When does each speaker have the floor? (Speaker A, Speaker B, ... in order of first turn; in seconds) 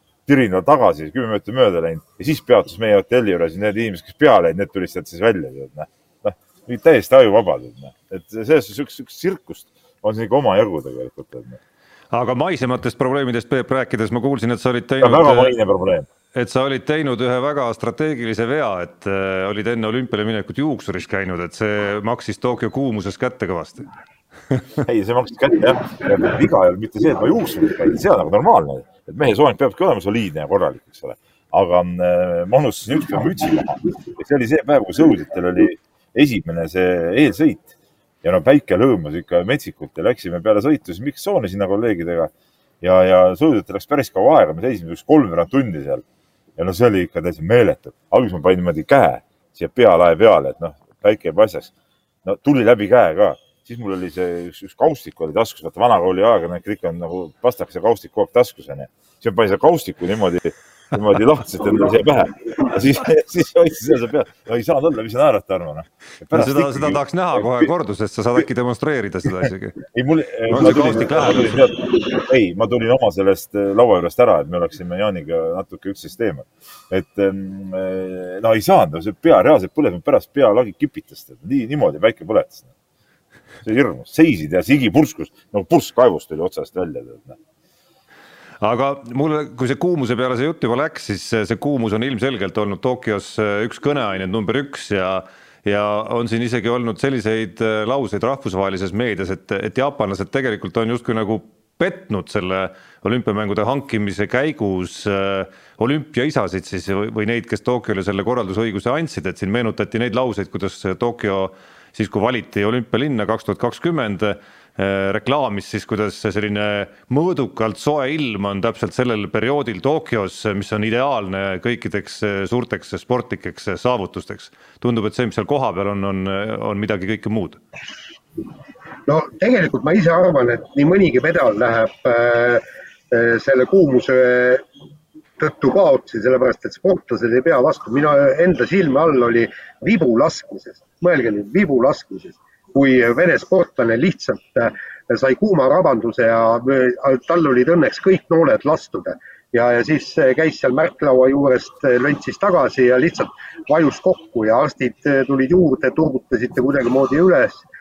Speaker A: 0.3-11.6, 15.0-16.1, 24.9-46.0, 46.6-51.7, 52.2-67.7, 69.9-82.7, 83.6-87.4
Speaker B: 12.1-15.6, 16.3-23.9, 66.3-69.8, 70.5-71.7, 88.6-127.6
Speaker C: 129.1-134.7, 135.4-157.6